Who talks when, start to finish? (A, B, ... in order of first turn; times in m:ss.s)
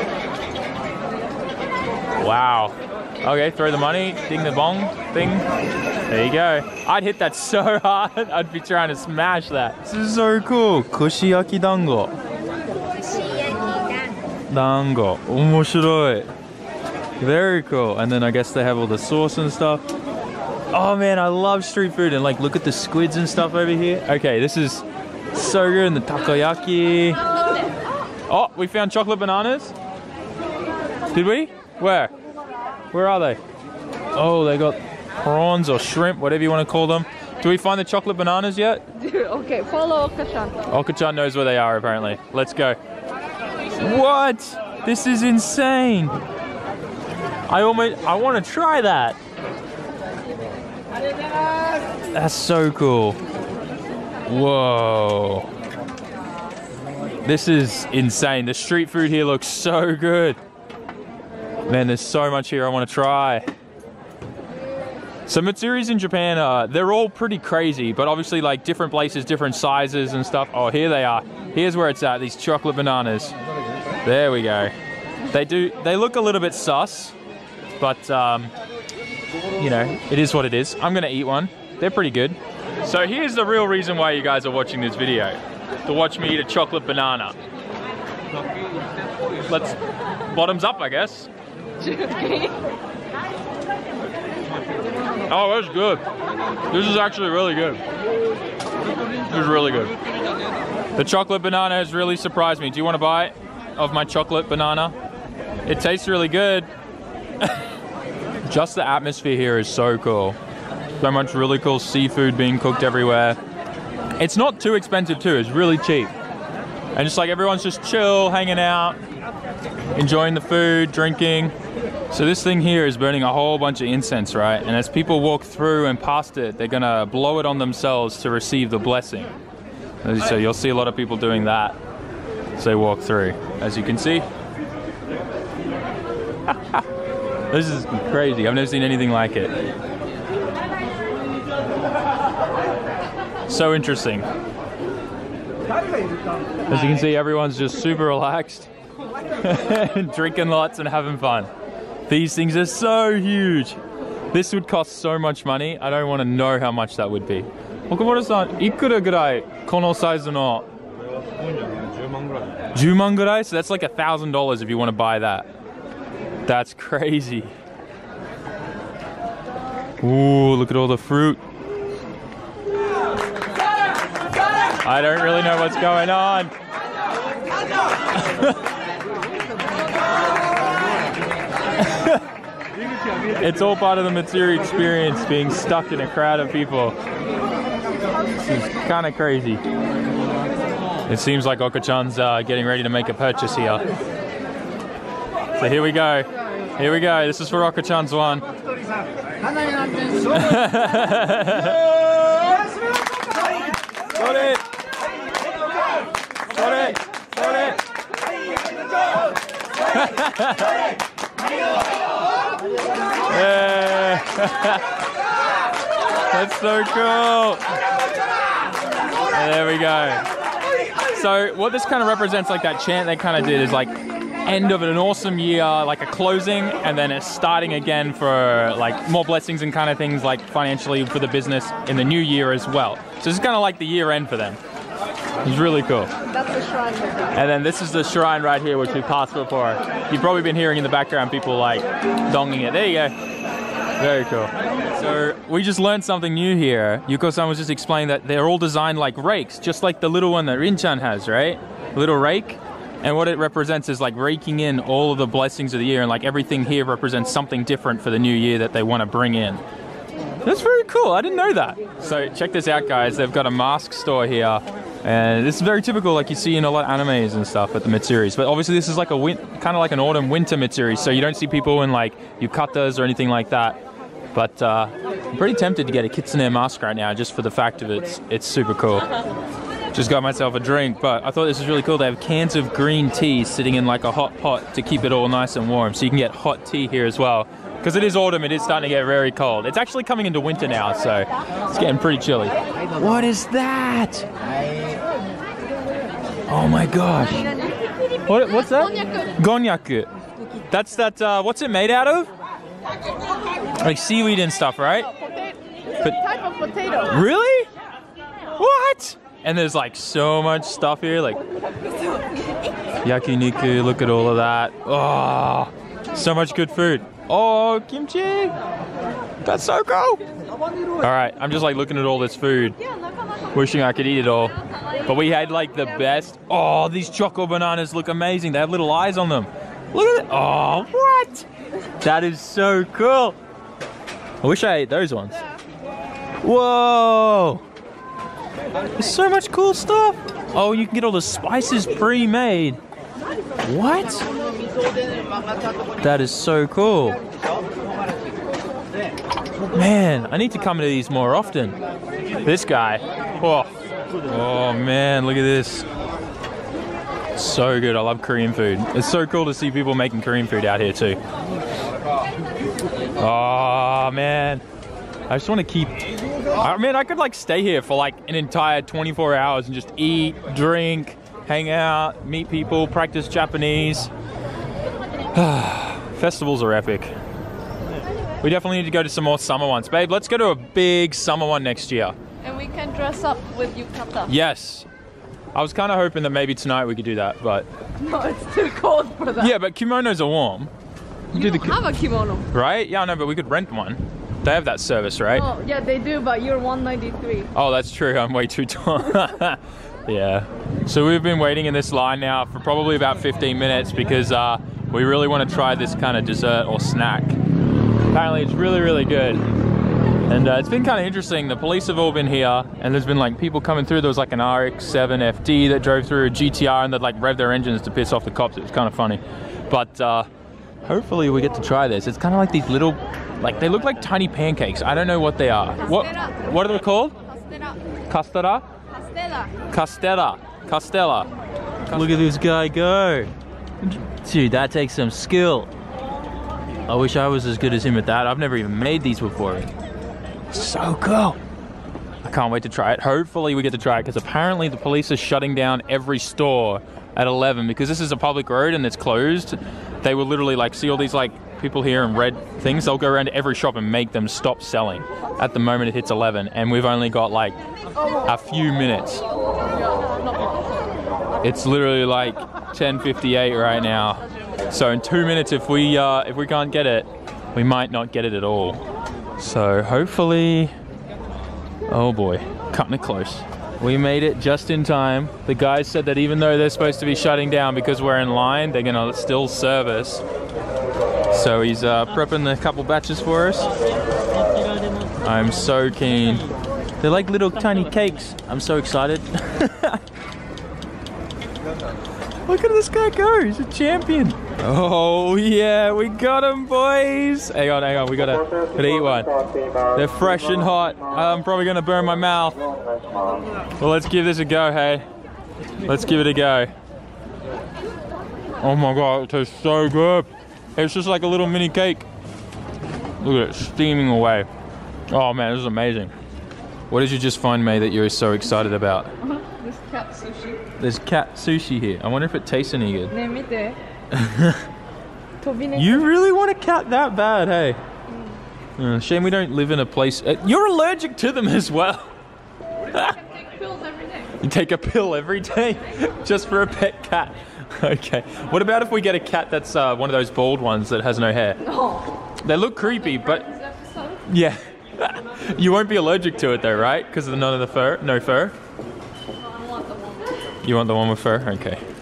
0:02.2-0:05.4 A
0:06.1-0:12.1 A
0:14.5-0:16.3 A
0:17.2-0:19.8 A
0:20.7-0:27.2 A
0:28.3-0:29.7 A
0:31.1-0:32.1 A
0:32.9-0:33.4 A
0:34.1-0:38.9 A
0:39.0-0:40.6 B
0:40.7-0:42.8 A
0:43.8-0:46.2 A
0:47.5-0:49.2 A
0:52.1-0:53.2 A
0:54.3-0:55.5 A
0:57.2-1:00.4 A
1:01.7-1:03.5 A
1:05.3-1:13.4 A
1:14.0-1:14.7 A
1:15.3-1:17.2 A
1:17.8-1:18.5 A
1:19.6-1:27.4 A
1:29.5-1:31.3 A
1:31.8-1:32.6 B
1:35.3-1:36.0 A
1:36.7-1:37.8 A
1:39.3-1:39.9 A
1:41.0-1:44.9 A
1:45.7-1:46.7 A
1:48.4-1:50.4 A
1:51.0-1:53.4 A
1:54.2-1:56.1 A
1:56.9-1:59.0 A
1:59.9-2:01.5 A
2:02.1-2:09.4 A
2:10.0-2:11.8 A
2:12.6-2:14.2 A
2:16.5-2:16.8 A
2:17.5-2:19.5 A
2:23.5-2:24.3 A
2:26.7-2:28.7 A
2:29.4-2:31.5 A
2:32.1-2:33.8 A
2:34.3-2:40.7 A
2:42.7-2:45.5 A
2:46.4-2:47.5 A
2:50.0-2:51.4 A
2:54.8-2:56.5 A
2:58.1-2:58.6 A
3:01.8-3:02.2 A
3:03.4-3:07.0 A
3:08.5-3:09.6 A
3:11.1-3:13.9 A
3:15.6-3:18.4 A
3:20.3-3:21.8 A
3:24.1-3:24.6 A
3:26.5-3:27.8 A
3:29.9-3:30.8 A
3:33.3-3:35.0 A
3:36.3-3:37.7 A
3:39.3-3:40.3 A
3:41.0-3:43.9 A
3:44.4-3:54.6 A
3:55.4-3:56.1 A
3:56.3-3:57.3 B
3:57.3-4:03.1 A
4:04.0-4:19.6 A
4:20.4-4:33.8 A
4:34.3-4:39.1 A
4:39.9-4:54.3 A
4:56.5-4:57.6 A
4:58.2-5:00.1 A
5:00.7-5:02.3 A
5:03.8-5:05.1 A
5:06.4-5:07.1 B
5:07.0-5:07.7 A
5:08.5-5:11.4 A
5:13.0-5:18.6 A
5:19.4-5:20.2 A
5:21.0-5:22.8 A
5:23.5-5:31.5 A
5:32.0-5:33.4 A
5:34.4-5:35.4 A
5:36.4-5:37.6 A
5:39.0-5:42.8 A
5:43.6-5:44.3 A
5:46.0-5:47.2 A
5:49.7-5:51.8 A
5:52.4-5:53.7 A
5:54.3-5:55.9 A
5:57.3-6:01.2 A
6:03.2-6:04.6 A
6:05.3-6:14.1 A
6:15.3-6:17.1 A
6:18.4-6:22.2 A
6:22.4-6:24.3 B
6:24.2-6:24.9 A
6:25.5-6:27.7 A
6:28.0-6:29.5 B
6:29.4-6:30.7 A
6:31.3-6:31.8 A
6:31.4-6:32.5 B
6:32.5-6:35.5 A
6:35.4-6:37.5 B
6:37.5-6:47.4 A
6:48.1-6:49.4 A
6:50.3-7:00.3 A
7:00.9-7:07.2 A
7:08.1-7:08.7 A
7:09.7-7:11.3 A
7:11.9-7:15.7 A
7:16.9-7:19.7 A
7:20.5-7:21.4 A
7:22.2-7:37.6 A
7:38.2-7:39.2 A
7:41.4-7:48.8 A
7:49.4-7:50.7 A
7:51.9-8:00.2 A
8:01.3-8:03.7 A
8:05.2-8:06.5 A
8:07.0-8:10.0 A
8:12.4-8:19.3 A
8:19.9-8:22.6 A
8:23.8-8:25.0 A
8:25.8-8:26.7 A
8:28.6-8:32.1 A
8:33.2-8:34.5 A
8:35.1-8:36.1 A
8:36.9-8:39.1 A
8:39.3-8:40.6 B
8:40.8-8:43.2 A
8:43.1-8:43.8 B
8:44.1-8:44.6 A
8:45.4-8:46.0 B
8:45.7-8:47.8 A
8:48.8-8:52.1 A
8:52.9-8:53.2 A
8:53.3-8:54.3 B
8:54.3-9:01.7 A
9:02.4-9:03.5 A
9:03.4-9:04.2 B
9:04.2-9:08.6 A
9:09.7-9:10.2 B
9:10.6-9:11.8 A